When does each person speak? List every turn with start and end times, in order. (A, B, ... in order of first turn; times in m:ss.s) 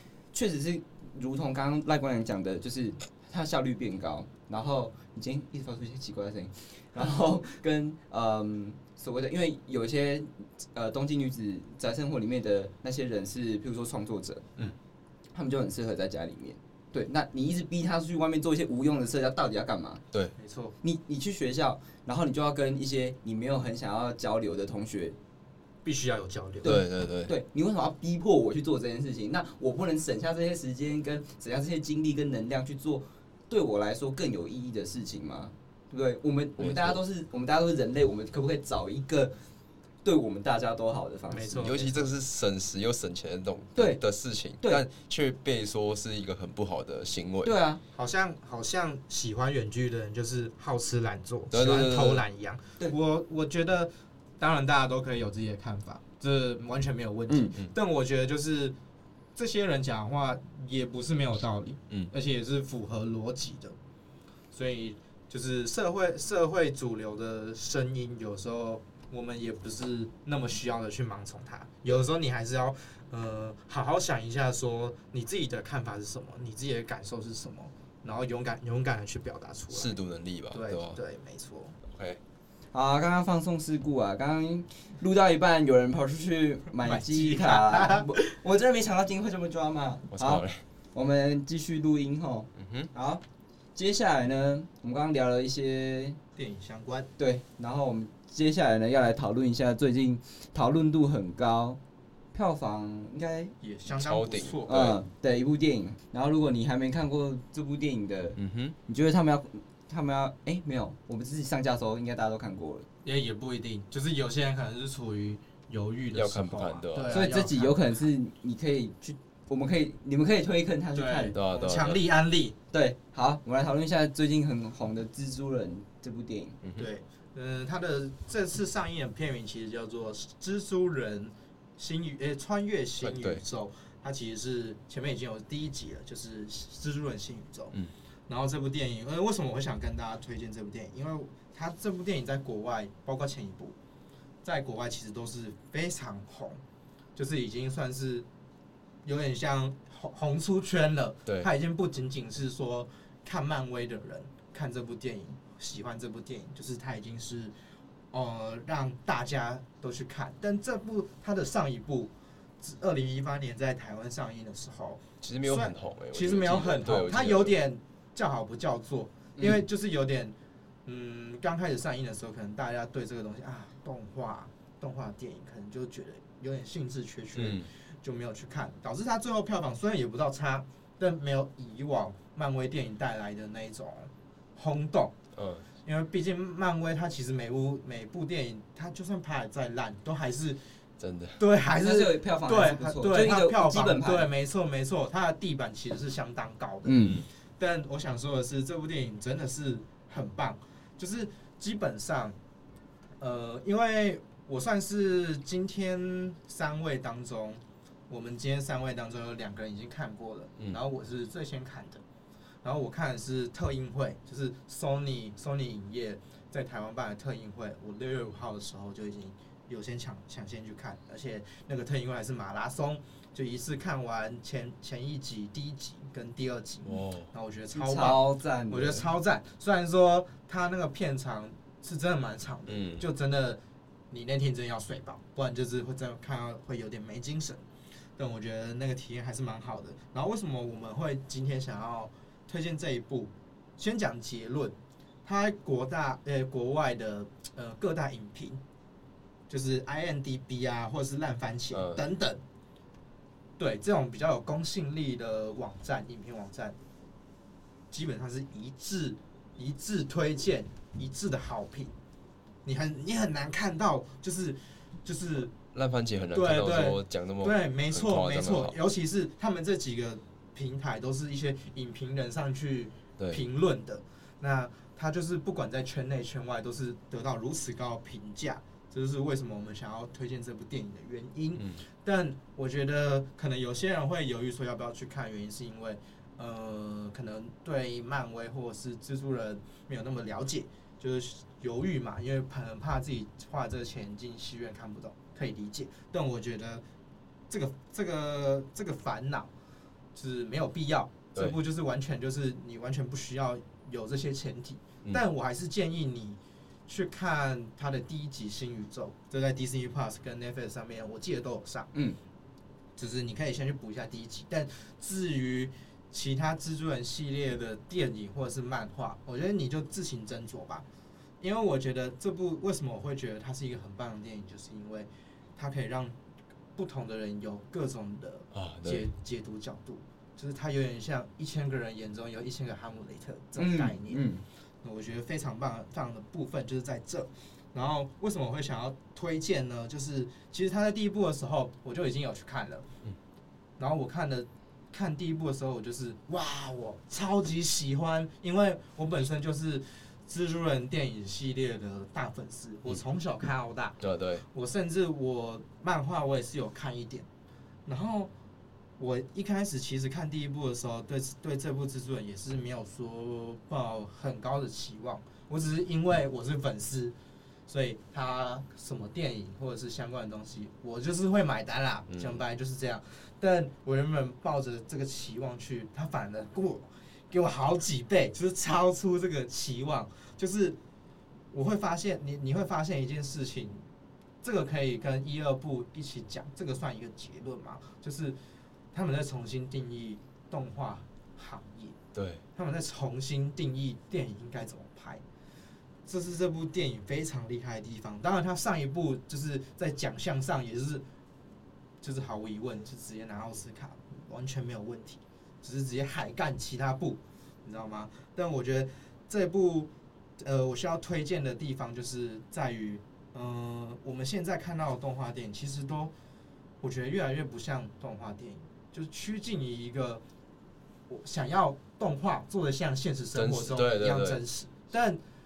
0:00.3-0:14.5 A
0:15.3-0:20.0 A
0:20.4-0:20.8 B
0:20.8-0:25.2 A
0:25.8-0:26.8 B
0:26.6-0:39.3 A
0:26.6-0:27.3 C
0:36.6-0:37.0 C
0:40.0-0:42.0 A
0:41.3-0:41.9 B
0:41.6-0:47.5 C
0:43.8-0:44.0 A
0:47.4-0:47.8 A
0:47.9-0:58.7 B
0:51.5-0:52.2 C
0:57.3-0:57.5 A
0:59.4-1:03.8 B
1:04.5-1:20.0 B
1:19.7-1:21.0 C
1:20.5-1:21.8 B
1:21.9-1:22.2 C
1:22.7-1:33.2 A
1:26.8-1:28.3 B
1:30.1-1:30.6 C
1:32.6-1:32.9 C
1:33.8-1:36.2 A
1:36.4-1:37.1 B
1:37.2-1:41.8 A
1:42.3-1:43.5 A
1:43.6-1:44.9 B
1:44.0-1:45.0 C
1:44.7-1:52.9 A
1:48.4-1:48.8 C
1:53.0-1:57.8 B
1:56.1-1:57.1 C
1:57.1-2:01.3 A
2:00.9-2:02.6 B
2:01.3-2:02.0 C
2:02.7-2:06.6 A
2:06.8-2:17.8 B
2:13.0-2:13.4 C
2:18.3-2:23.7 B
2:24.4-2:26.6 B
2:27.2-2:28.2 B
2:29.0-2:37.5 B
2:38.1-2:50.3 B
2:45.2-2:47.6 C
2:49.4-2:49.6 A
2:50.8-3:05.2 B
2:57.3-2:57.7 C
3:05.3-3:05.6 C
3:05.8-3:10.6 B
3:11.0-3:11.4 C
3:11.4-3:22.4 B
3:11.8-3:14.3 A
3:16.8-3:17.2 A
3:23.2-3:32.0 B
3:32.6-3:53.6 B
3:46.8-3:47.3 C
3:47.7-3:49.0 A
3:52.7-3:53.0 C
3:54.1-3:57.6 B
3:58.2-4:04.7 B
4:05.2-4:08.6 B
4:09.5-4:12.4 B
4:11.7-4:12.0 C
4:13.6-4:16.8 B
4:17.9-4:21.9 B
4:22.6-4:25.5 B
4:25.7-4:28.8 C
4:26.3-4:56.8 B
4:57.5-4:59.5 B
5:00.1-5:11.9 B
5:13.0-5:20.8 B
5:21.4-5:26.1 B
5:26.8-5:34.2 B
5:28.5-5:29.1 C
5:33.6-5:34.4 A
5:34.8-5:42.9 B
5:43.8-5:57.2 B
5:54.0-5:54.4 C
5:57.8-5:58.3 B
5:59.0-6:07.1 B
6:07.7-6:20.8 B
6:12.1-6:12.4 C
6:21.5-6:23.8 B
6:24.4-6:28.4 B
6:28.9-6:32.0 B
6:32.1-6:32.4 C
6:32.5-6:35.2 B
6:36.0-6:41.0 B
6:42.0-6:56.1 B
6:56.8-7:00.2 B
7:01.1-7:05.2 B
7:03.3-7:04.4 C